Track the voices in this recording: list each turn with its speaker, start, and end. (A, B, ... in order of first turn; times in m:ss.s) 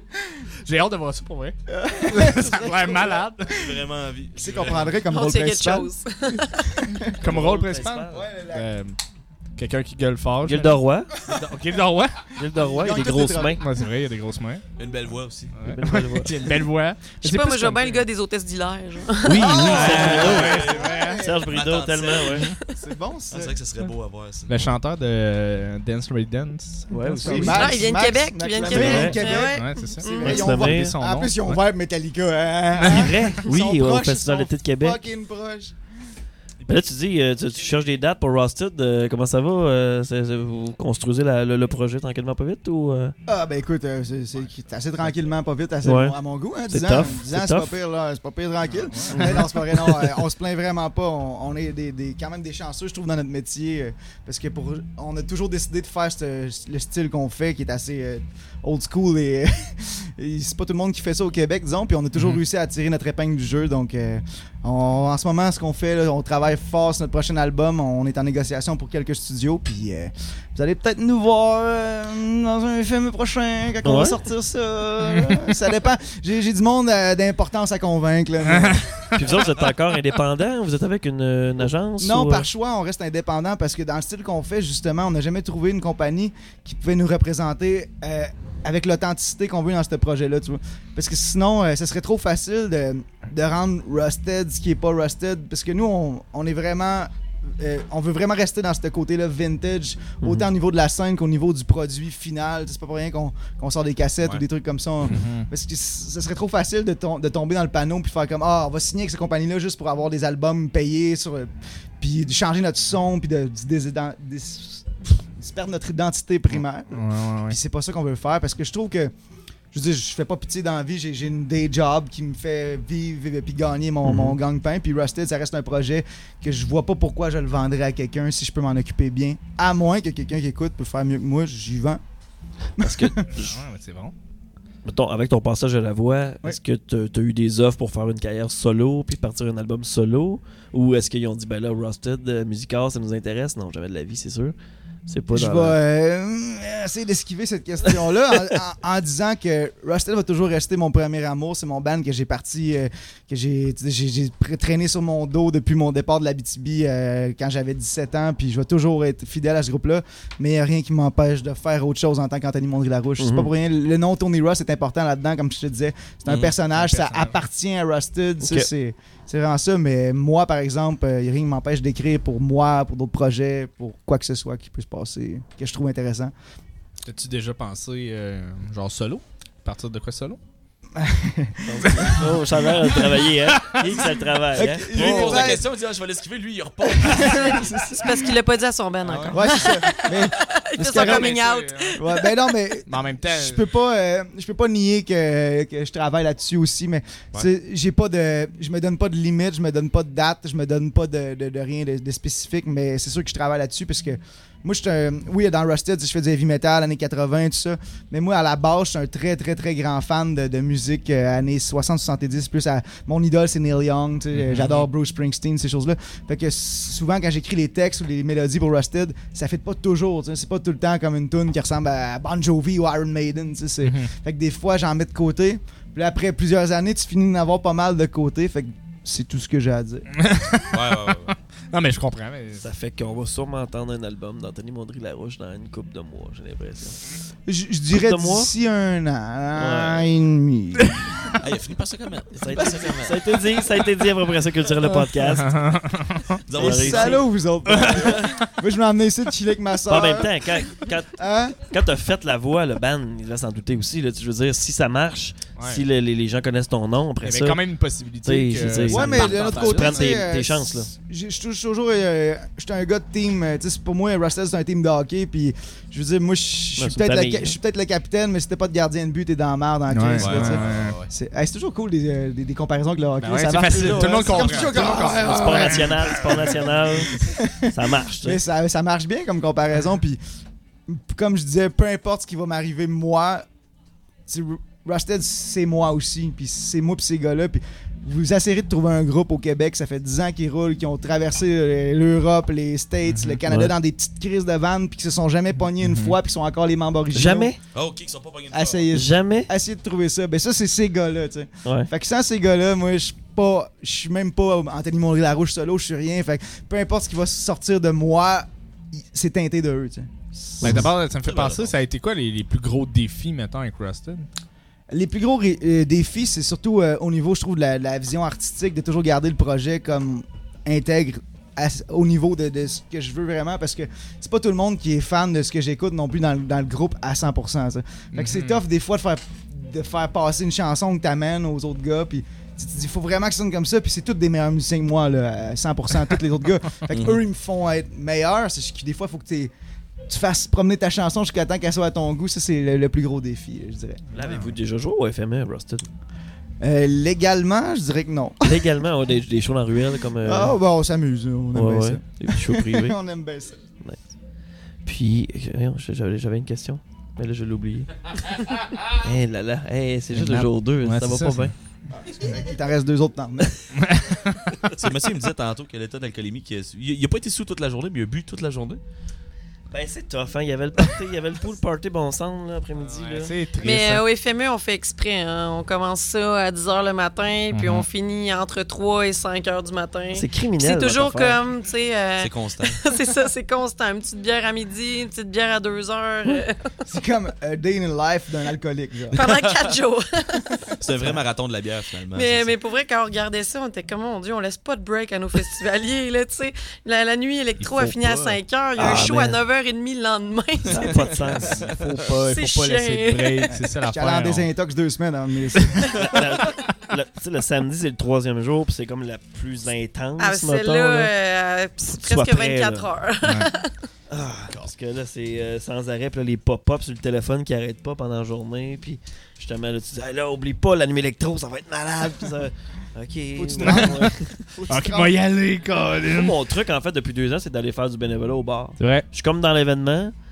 0:00.6-0:03.6 A
0:01.7-0:03.3 B
0:03.5-0:05.0 C
0:04.4-0:05.9 B
0:05.1-0:06.8 D
0:06.8-0:07.2 B
0:07.2-0:09.0 A
0:07.2-0:08.3 E
0:08.1-0:08.7 B
0:09.6-0:12.3 A
0:10.4-0:11.1 E
0:11.2-0:11.6 B
0:12.4-0:13.6 E
0:12.4-0:13.7 B
0:13.6-0:14.6 A
0:14.8-0:15.6 C
0:15.6-0:18.0 A
0:15.6-0:16.4 E
0:16.3-0:16.6 C
0:17.2-0:19.9 D
0:19.2-0:22.5 E
0:19.4-0:21.5 B
0:19.4-0:21.2 A
0:19.6-0:20.9 C
0:21.5-0:22.5 C
0:22.7-0:23.6 B
0:23.3-0:24.7 C
0:24.5-0:27.6 A
0:26.9-0:27.8 E
0:27.2-0:35.8 B
0:27.5-0:30.4 D
0:28.6-0:29.2 E
0:28.8-0:31.6 A
0:30.2-0:30.9 E
0:32.8-0:35.0 E
0:32.8-0:33.1 A
0:36.7-0:43.1 E
0:43.3-1:18.9 B
0:45.8-0:46.2 E
0:46.7-0:47.7 E
0:48.7-0:49.4 A
0:49.1-0:50.0 E
1:13.8-1:14.2 E
1:18.5-1:19.0 A
1:19.1-1:22.5 E
1:22.0-1:59.1 B
1:40.2-1:40.5 E
1:45.0-1:45.5 A
1:56.9-1:57.6 A
1:59.7-2:12.0 B
2:04.0-2:04.4 E
2:12.8-2:13.3 B
2:12.8-2:13.6 E
2:13.4-2:14.1 A
2:14.8-2:24.6 E
2:25.1-2:25.8 E
2:25.3-2:56.3 B
2:43.2-2:43.5 E
2:46.3-2:46.5 C
2:46.7-2:47.4 A
2:48.4-2:48.7 E
2:57.0-3:00.4 A
3:00.9-3:02.4 B
3:01.6-3:05.6 E
3:03.6-3:04.0 A
3:04.5-3:05.7 B
3:04.8-3:07.9 C
3:06.9-3:08.4 B
3:07.9-3:12.5 D
3:09.1-3:09.7 A
3:09.3-3:11.4 B
3:10.8-3:12.0 A
3:12.0-3:50.1 B
3:12.9-3:13.6 A
3:34.4-3:34.9 A
3:43.8-3:44.1 A
3:50.1-3:52.6 A
3:50.7-3:51.3 C
3:52.6-3:57.0 E
3:57.5-4:01.4 B
3:57.9-3:58.5 E
3:59.6-4:00.1 E
4:01.4-4:03.7 C
4:02.3-4:05.5 E
4:02.6-4:02.9 B
4:05.0-4:06.4 A
4:06.5-4:07.3 C
4:06.5-4:07.2 E
4:06.5-4:11.6 B
4:07.7-4:08.5 A
4:09.9-4:17.6 E
4:15.6-4:15.8 A
4:17.2-4:20.2 A
4:18.2-4:20.9 E
4:18.9-4:40.2 B
4:26.8-4:27.6 E
4:29.9-4:31.0 A
4:30.2-4:31.1 C
4:33.2-4:37.2 A
4:33.7-4:38.4 E
4:40.9-4:43.5 B
4:44.3-4:57.5 B
4:53.1-4:53.4 A
4:53.5-4:53.7 E
4:55.8-4:56.2 A
4:57.1-4:57.6 E
4:57.7-4:58.9 C
4:58.5-5:10.9 B
4:58.9-4:59.5 E
5:10.6-5:10.9 E
5:10.6-5:14.3 A
5:11.2-5:11.8 C
5:14.9-5:39.5 B
5:28.1-5:28.6 A
5:36.9-5:37.2 C
5:40.1-5:44.0 B
5:44.1-5:45.9 E
5:44.2-5:44.5 A
5:46.6-5:48.7 B
5:48.4-5:50.6 E
5:50.2-5:53.6 B
5:51.5-5:53.0 E
5:54.8-6:01.5 E
6:00.2-6:01.5 A
6:02.0-6:03.7 B
6:03.8-6:04.6 A
6:04.7-6:08.8 C
6:09.7-6:13.4 E
6:13.1-6:14.0 A
6:13.6-6:26.7 D
6:17.5-6:17.9 A
6:20.1-6:21.4 E
6:22.2-6:22.9 C
6:26.9-6:29.2 B
6:29.1-6:30.6 D
6:29.2-6:29.6 C
6:30.8-6:32.5 C
6:32.1-6:41.2 D
6:37.6-6:38.4 A
6:38.8-6:39.4 E
6:40.7-6:42.0 E
6:40.7-6:42.0 C
6:41.6-6:44.5 A
6:42.2-6:43.6 D
6:43.6-6:46.1 B
6:46.0-6:51.1 E
6:50.2-6:53.7 D
6:51.8-6:52.9 E
6:53.2-6:53.5 A
6:54.1-7:04.4 E
7:03.4-7:05.2 B
7:03.6-7:06.4 A
7:06.1-7:10.1 E
7:08.8-7:09.1 A